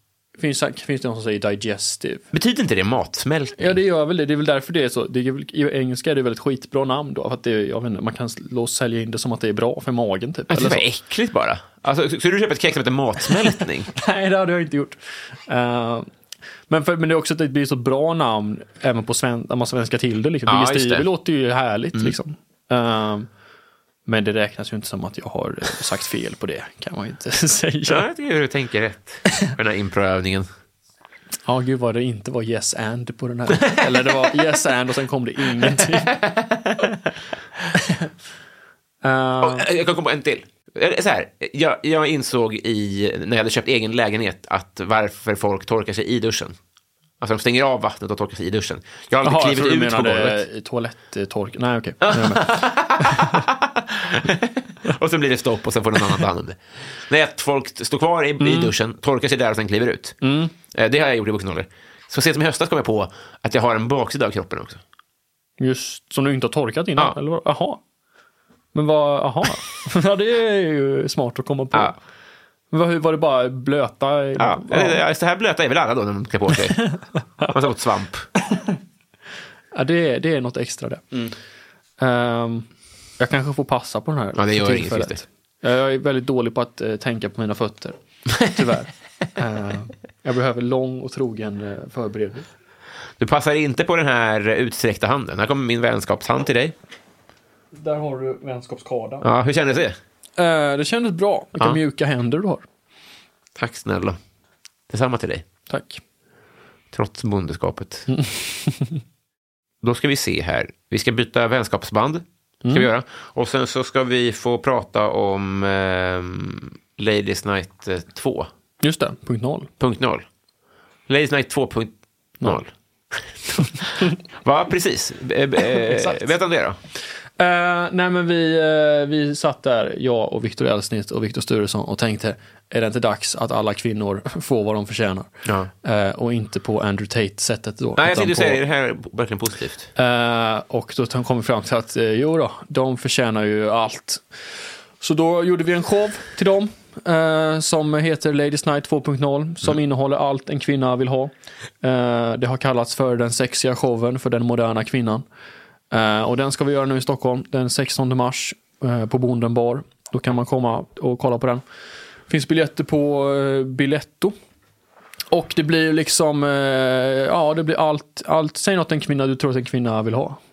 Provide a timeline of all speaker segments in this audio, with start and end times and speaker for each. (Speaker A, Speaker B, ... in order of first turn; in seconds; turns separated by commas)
Speaker A: 0.3-2.3, Speaker B: 2.3-3.8, Speaker A: 3.6-10.8, Speaker B: 10.5-13.9, Speaker A: 13.9-14.9, Speaker A: 15.5-16.1, Speaker A: 16.7-23.3, Speaker B: 20.5-21.1, Speaker A: 24.1-28.0, Speaker B: 27.9-30.5, Speaker A: 31.4-36.2, Speaker B: 33.6-34.2, Speaker B: 35.6-36.9, Speaker A: 37.7-38.1, Speaker A: 39.0-39.7, Speaker B: 39.4-46.5, Speaker B: 47.2-50.4, Speaker A: 49.2-53.4, Speaker B: 52.0-60.1, Speaker A: 58.4-58.7, Speaker A: 60.2-60.5, Speaker B: 60.7-64.8, Speaker A: 65.6-67.8, Speaker A: 68.7-72.0, Speaker A: 72.7-75.0, Speaker B: 74.4-78.3, Speaker A: 79.7-81.1, Speaker A: 82.0-82.7, Speaker A: 83.2-92.5, Speaker B: 84.3-85.2, Speaker B: 93.2-96.7, Speaker A: 97.7-99.3, Speaker B: 99.2-100.0, Speaker A: 100.4-102.6, Speaker B: 103.6-104.2, Speaker B: 104.9-105.4, Speaker A: 105.7-106.0, Speaker B: 106.9-108.1, Speaker A: 108.1-109.0, Speaker B: 109.8-118.5, Speaker A: 112.6-112.9, Speaker A: 118.8-119.7, Speaker B: 119.8-120.2, Speaker B: 121.1-126.8, Speaker A: 127.4-135.3, Speaker B: 135.4-135.7, Speaker A: 135.8-138.6, Speaker B: 138.0-139.9, Speaker A: 139.9-144.2, Speaker A: 145.0-155.2, Speaker A: 155.9-161.6, Speaker A: 162.3-164.3, Speaker A: 165.3-170.4